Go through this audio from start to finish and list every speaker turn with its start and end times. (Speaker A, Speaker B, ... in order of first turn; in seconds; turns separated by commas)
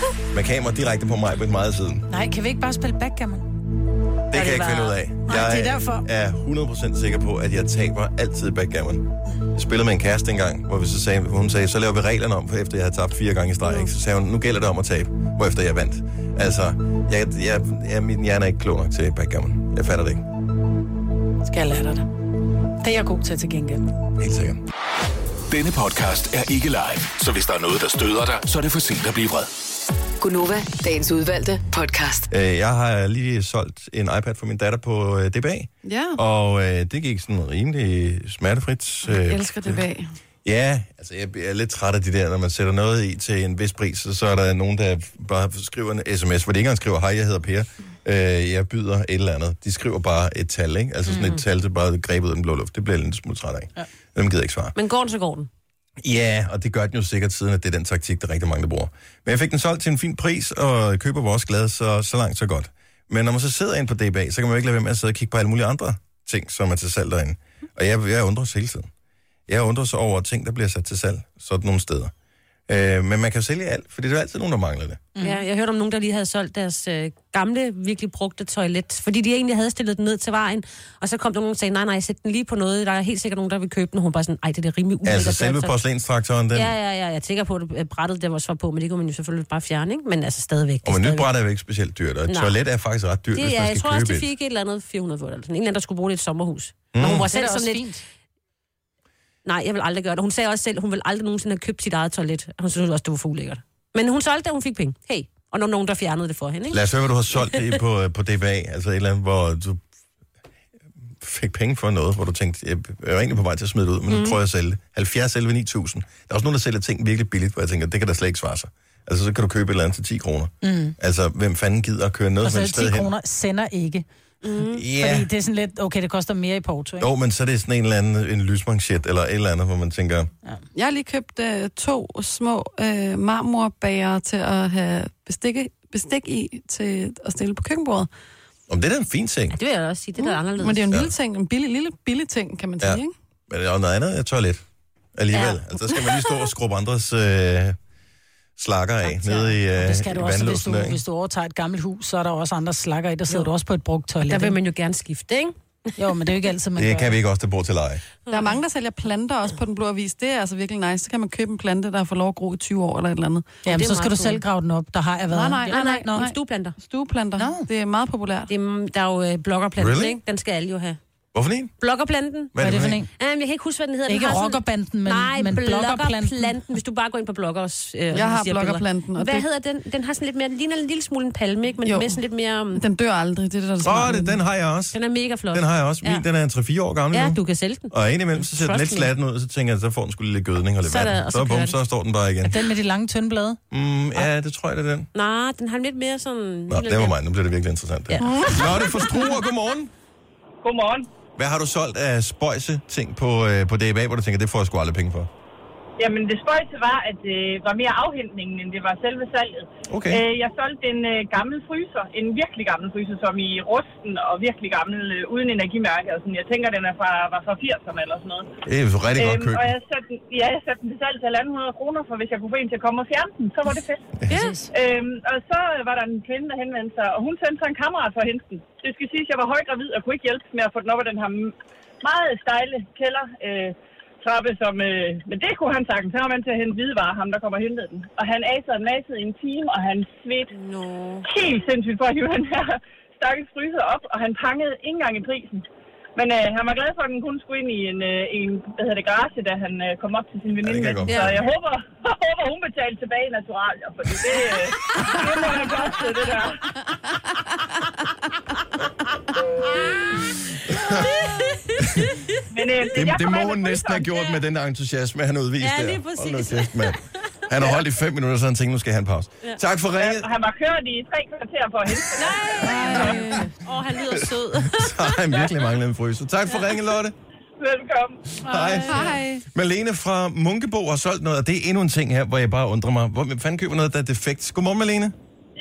Speaker A: 0.3-2.1, Speaker B: 2.1-3.5, Speaker A: 4.3-20.2, Speaker C: 4.3-5.0, Speaker B: 5.3-6.0, Speaker B: 21.4-22.1, Speaker B: 22.8-23.9, Speaker A: 24.2-24.6, Speaker D: 25.5-29.5, Speaker E: 30.2-32.3, Speaker A: 32.3-39.9, Speaker F: 35.8-36.2, Speaker F: 39.1-40.1, Speaker A: 40.5-54.7, Speaker C: 51.1-51.4, Speaker C: 54.8-55.5, Speaker A: 56.0-68.9, Speaker A: 69.5-72.1, Speaker A: 72.7-75.0, Speaker B: 75.2-75.4, Speaker C: 75.2-85.8, Speaker A: 85.0-86.8, Speaker C: 86.5-91.3, Speaker A: 90.8-94.3, Speaker C: 92.3-92.5, Speaker C: 93.3-97.9, Speaker A: 96.9-97.3, Speaker B: 97.0-98.0, Speaker C: 99.5-106.8, Speaker A: 106.7-109.8, Speaker A: 111.2-123.1, Speaker C: 114.1-114.4, Speaker B: 120.6-121.0, Speaker B: 122.4-124.0, Speaker C: 124.4-124.8, Speaker A: 124.7-125.3, Speaker B: 124.9-127.1, Speaker A: 127.0-130.3, Speaker F: 130.8-138.1, Speaker A: 138.7-139.6, Speaker C: 139.5-140.9, Speaker F: 140.2-143.1, Speaker A: 142.8-144.6, Speaker A: 145.2-147.8, Speaker C: 145.3-145.6, Speaker A: 148.6-151.0, Speaker B: 149.1-154.6, Speaker C: 154.2-155.9, Speaker B: 156.0-157.2, Speaker A: 156.8-158.0, Speaker C: 158.3-158.6, Speaker F: 158.3-163.5, Speaker B: 163.7-166.3, Speaker C: 163.7-164.4, Speaker F: 165.3-168.5, Speaker C: 165.7-166.8, Speaker B: 167.4-167.7, Speaker C: 168.5-171.0, Speaker A: 169.8-170.2, Speaker A: 171.3-171.7, Speaker C: 171.8-182.8, Speaker A: 172.5-173.0, Speaker B: 172.6-173.1, Speaker B: 174.1-176.5, Speaker F: 178.1-179.5, Speaker F: 181.8-182.2, Speaker F: 182.7-184.4, Speaker A: 183.8-185.0, Speaker C: 184.9-186.2, Speaker A: 185.5-187.4, Speaker C: 187.1-189.1, Speaker A: 187.9-192.6, Speaker C: 190.8-191.8, Speaker B: 192.4-193.6, Speaker A: 193.7-195.1, Speaker C: 195.1-197.2, Speaker A: 196.7-199.9, Speaker C: 198.1-199.1, Speaker F: 198.2-198.7, Speaker G: 200.6-201.1, Speaker A: 201.4-205.3, Speaker G: 206.0-218.5, Speaker A: 209.9-210.2, Speaker A: 218.7-219.7, Speaker G: 219.2-224.1, Speaker B: 224.3-224.7, Speaker C: 224.3-224.6, Speaker G: 224.7-240.5, Speaker C: 240.5-241.3, Speaker G: 241.3-245.6, Speaker G: 246.2-256.6, Speaker A: 250.6-251.4, Speaker C: 251.1-251.4, Speaker A: 260.7-261.1, Speaker C: 261.0-262.2, Speaker A: 261.8-262.1, Speaker G: 262.5-264.1, Speaker A: 262.9-270.3, Speaker C: 265.6-267.0, Speaker G: 270.0-272.7, Speaker C: 272.2-275.5, Speaker F: 272.6-273.5, Speaker A: 273.9-277.1, Speaker G: 277.6-278.0, Speaker A: 278.4-285.1, Speaker B: 278.5-278.8, Speaker F: 278.8-279.4